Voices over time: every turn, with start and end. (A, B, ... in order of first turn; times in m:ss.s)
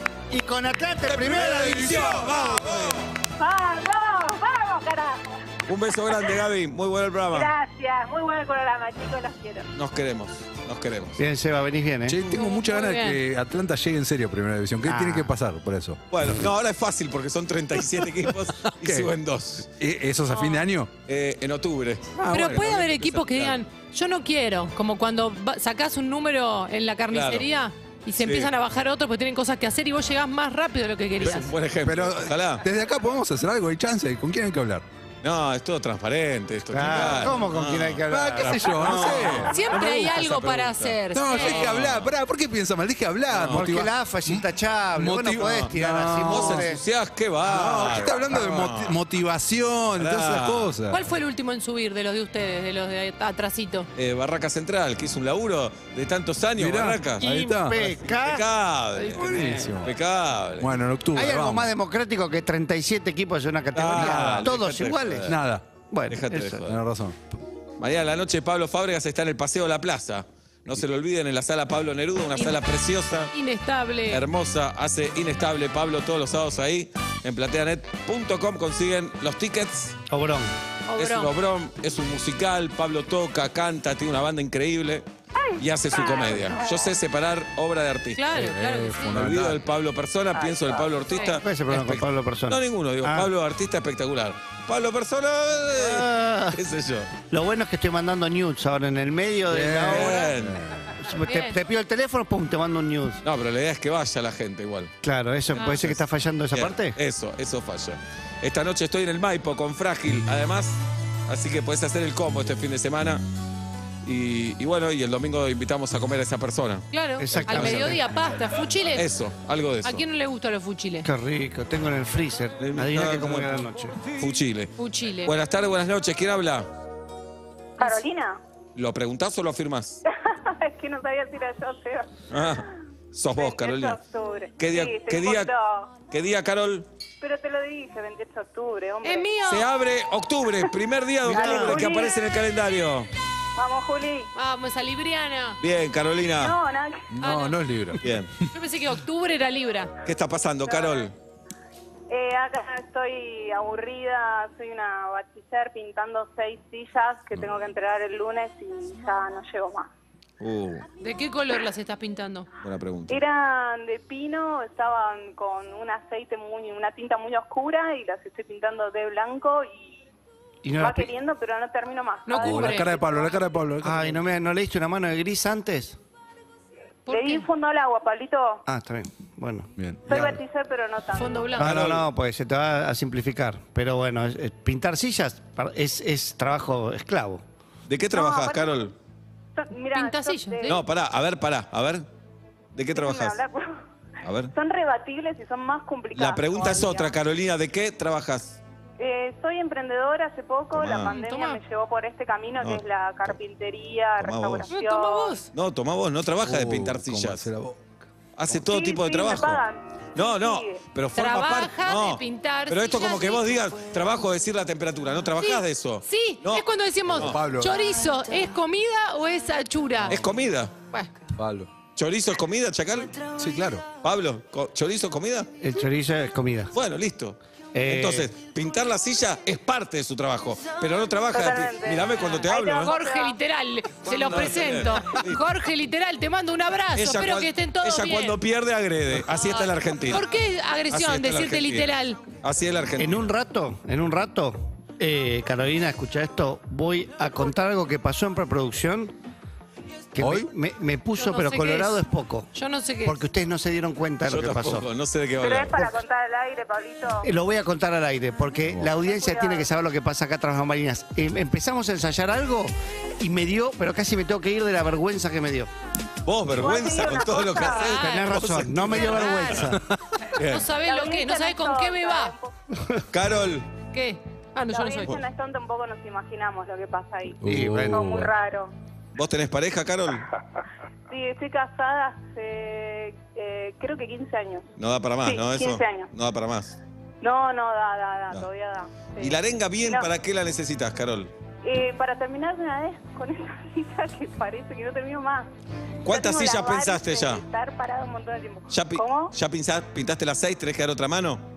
0:00.3-0:02.2 A
0:01.1-0:03.0 B
0:01.4-0:03.0 C
0:03.4-0:05.3 D
0:05.6-0:07.5 B
0:06.1-0:06.4 D
0:07.3-0:09.7 D
0:09.7-0:11.2 B
0:11.2-0:12.2 A
0:12.1-0:16.0 C
0:12.3-0:13.2 E
0:14.8-0:15.3 A
0:16.1-0:19.7 B
0:18.3-0:19.1 C
0:19.8-0:20.9 C
0:20.3-0:20.6 E
0:21.0-0:23.6 B
0:22.2-0:23.1 C
0:22.3-0:31.5 E
0:27.1-0:27.5 B
0:28.2-0:28.5 B
0:31.2-0:32.6 B
0:31.8-0:34.8 C
0:35.2-0:42.1 B
0:36.7-0:39.4 A
0:37.1-0:37.4 C
0:38.1-0:40.5 C
0:39.5-0:41.6 E
0:41.1-0:46.7 C
0:43.3-0:43.6 B
0:43.5-0:46.8 A
0:45.4-0:45.7 B
0:46.2-0:49.0 B
0:47.4-0:51.0 C
0:50.0-0:50.7 B
0:50.9-0:53.9 E
0:54.0-0:57.3 B
0:56.6-0:57.9 C
0:57.2-0:58.5 A
0:58.1-1:00.7 B
0:59.1-0:59.9 C
0:59.2-0:59.7 A
1:00.6-1:01.7 C
1:01.1-1:05.3 A
1:03.7-1:05.4 B
1:03.9-1:04.5 C
1:05.2-1:05.6 C
1:05.9-1:06.5 A
1:06.1-1:06.8 B
1:06.6-1:07.2 C
1:07.8-1:13.3 B
1:13.3-1:14.2 E
1:14.1-1:20.0 B
1:20.1-1:20.5 A
1:20.9-1:21.3 E
1:21.0-1:25.0 B
1:25.4-1:26.7 F
1:25.6-1:28.3 B
1:28.2-1:29.2 E
1:28.3-1:29.6 C
1:29.1-1:37.1 B
1:31.3-1:33.3 A
1:35.7-1:36.6 A
1:37.3-1:40.2 A
1:39.5-1:40.9 C
1:39.8-1:40.6 B
1:41.0-1:43.2 A
1:41.2-1:41.6 E
1:43.2-1:44.9 B
1:45.0-1:47.0 A
1:45.5-1:46.0 B
1:46.5-1:53.2 B
1:54.0-1:57.9 B
1:56.9-1:59.0 E
1:57.2-1:58.0 A
1:58.9-2:00.0 B
1:59.8-2:01.1 E
2:01.0-2:04.0 A
2:02.6-2:04.7 B
2:04.8-2:05.3 E
2:05.2-2:06.7 B
2:07.8-2:08.4 F
2:08.8-2:10.0 B
2:10.1-2:12.4 F
2:12.3-2:14.0 B
2:13.3-2:15.9 F
2:14.6-2:15.5 B
2:16.1-2:16.8 B
2:17.2-2:19.3 F
2:19.0-2:19.6 E
2:19.5-2:23.1 B
2:21.2-2:22.2 F
2:21.4-2:21.7 A
2:23.6-2:24.3 F
2:24.3-2:25.6 E
2:25.6-2:26.6 B
2:26.4-2:27.1 F
2:27.1-2:28.4 C
2:27.2-2:27.6 E
2:28.0-2:28.3 B
2:28.5-2:29.9 E
2:30.0-2:31.1 B
2:30.7-2:31.0 F
2:32.1-2:39.9 F
2:40.4-2:40.8 B
2:41.0-2:42.5 E
2:42.6-2:43.2 B
2:43.1-2:50.0 F
2:50.6-2:51.1 A
2:50.8-2:53.4 F
2:52.2-2:53.0 E
2:52.4-2:54.2 C
2:53.8-2:56.0 A
2:57.0-2:57.4 E
2:57.1-2:58.6 F
2:58.6-3:00.3 A
2:59.8-3:00.3 C
3:00.1-3:01.6 F
3:01.1-3:01.7 E
3:01.6-3:07.4 A
3:01.6-3:02.1 B
3:07.9-3:08.9 B
3:08.1-3:08.9 F
3:09.5-3:10.8 F
3:09.9-3:10.8 E
3:10.6-3:12.1 B
3:12.7-3:13.4 B
3:12.9-3:13.8 F
3:14.2-3:14.5 B
3:14.5-3:17.1 F
3:16.1-3:18.6 B
3:19.0-3:25.4 F
3:20.7-3:21.1 B
3:21.1-3:21.6 E
3:22.6-3:23.3 B
3:24.2-3:24.7 B
3:24.7-3:25.5 E
3:25.5-3:27.5 B
3:26.4-3:27.9 C
3:28.4-3:29.6 B
3:28.6-3:30.8 F
3:30.1-3:37.4 B
3:31.2-3:33.7 E
3:35.4-3:40.2 E
3:37.1-3:37.8 C
3:40.0-3:40.7 B
3:41.3-3:41.7 C
3:42.0-3:43.2 B
3:43.4-3:43.8 C
3:44.0-3:45.5 B
3:45.6-3:46.7 A
3:46.7-3:52.9 B
3:47.7-3:48.3 A
3:51.3-3:53.4 F
3:52.8-3:58.4 E
3:54.0-3:55.4 B
3:56.9-4:00.3 B
3:59.3-4:02.2 E
4:00.9-4:03.3 B
4:03.0-4:09.1 A
4:10.1-4:12.5 A
4:10.2-4:10.5 C
4:11.2-4:12.0 E
4:12.5-4:13.2 E
4:13.0-4:14.8 A
4:14.3-4:15.8 B
4:15.4-4:17.3 F
4:17.2-4:25.7 A
4:18.9-4:19.7 F
4:26.2-4:29.7 B
4:26.5-4:28.0 F
4:27.5-4:29.6 E
4:28.0-4:29.8 A
4:30.3-4:32.3 E
4:30.4-4:30.7 B
4:30.8-4:32.5 F
4:33.1-4:33.7 B
4:33.9-4:35.1 E
4:34.7-4:38.7 F
4:37.4-4:38.3 C
4:37.4-4:38.0 A
4:39.1-4:40.3 B
4:41.1-4:44.6 F
4:44.8-4:46.8 B
4:45.2-4:46.1 F
4:47.2-4:50.0 F
4:49.2-4:51.3 B
4:51.6-4:55.5 F
4:56.0-4:57.4 B
4:56.1-4:59.3 F
4:58.7-5:01.4 B